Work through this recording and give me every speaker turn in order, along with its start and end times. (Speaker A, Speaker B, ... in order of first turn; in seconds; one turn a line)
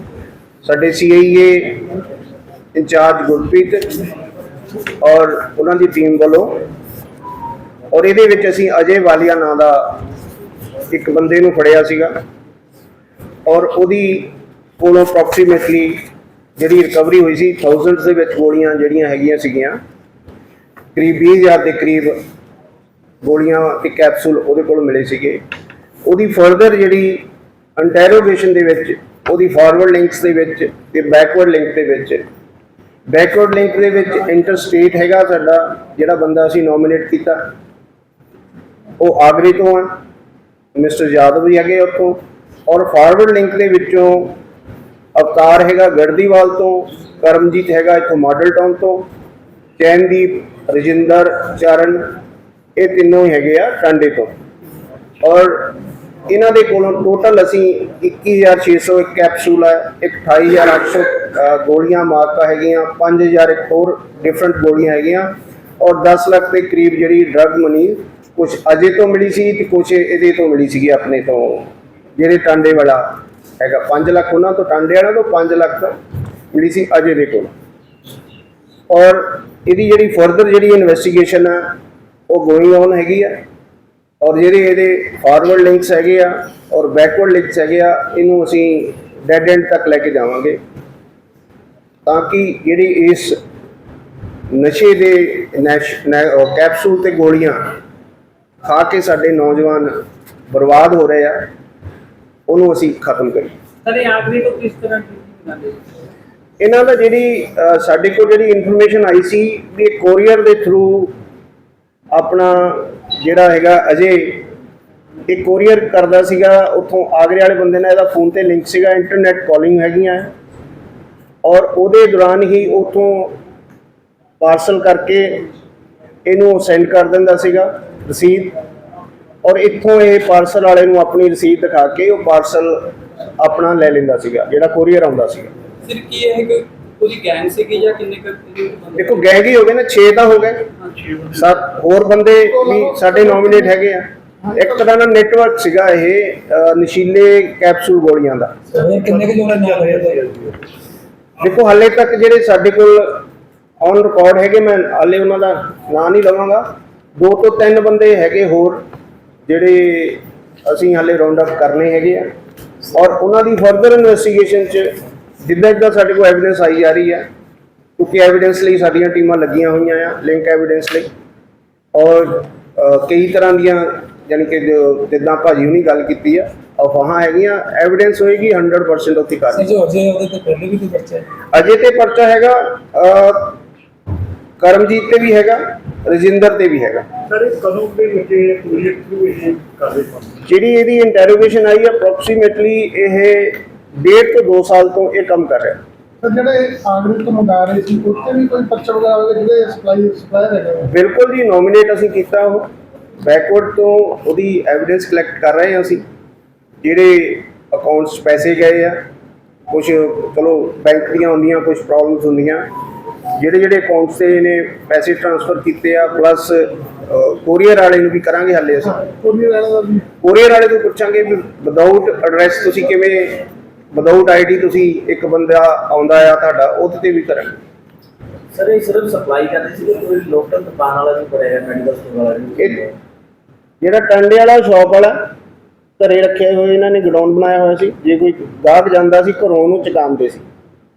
Speaker A: 0.6-1.9
Speaker A: 2.8-4.0
Speaker A: 5.0-6.6
Speaker A: 7.9-10.0
Speaker A: 10.9-12.2
Speaker A: 13.5-16.1
Speaker A: 16.6-19.8
Speaker A: 20.9-22.2
Speaker A: 23.2-25.4
Speaker A: 26.1-32.2
Speaker A: 33.1-37.5
Speaker A: 39.0-39.9
Speaker A: 40.8-44.4
Speaker A: 45.1-49.1
Speaker A: 49.8-52.2
Speaker A: 52.8-54.3
Speaker A: 55.2-76.0
Speaker A: 76.5-77.5
Speaker A: 78.9-81.8
Speaker A: 82.3-83.4
Speaker A: 84.2-90.6
Speaker A: 92.0-93.4
Speaker A: 94.5-97.8
Speaker A: 98.6-100.0
Speaker A: 100.5-101.5
Speaker A: 102.5-103.5
Speaker B: 103.8-105.8
Speaker A: 106.6-111.1
Speaker A: 112.1-114.5
Speaker A: 115.3-120.3
Speaker A: 121.4-123.4
Speaker A: 124.4-125.5
Speaker A: 126.3-128.6
Speaker A: 129.4-135.5
Speaker B: 135.8-139.3
Speaker A: 139.0-140.7
Speaker A: 141.3-148.5
Speaker C: 142.6-143.7
Speaker C: 144.4-144.8
Speaker D: 148.7-150.3
Speaker E: 149.0-150.5
Speaker A: 151.4-153.2
Speaker A: 153.8-158.8
Speaker A: 159.5-162.3
Speaker A: 162.9-167.3
Speaker A: 168.0-171.1
Speaker A: 171.9-179.7
Speaker D: 179.5-181.3
Speaker A: 181.5-183.6
Speaker A: 184.6-187.1
Speaker E: 187.3-190.4
Speaker A: 190.5-195.8
Speaker C: 196.2-200.9
Speaker A: 200.9-202.7
Speaker A: 203.2-206.0
Speaker A: 206.8-209.0
Speaker A: 209.7-212.7
Speaker A: 213.4-219.1
Speaker C: 219.0-220.1
Speaker A: 220.2-227.6
Speaker F: 228.5-232.9
Speaker A: 233.8-235.3
Speaker A: 236.0-240.4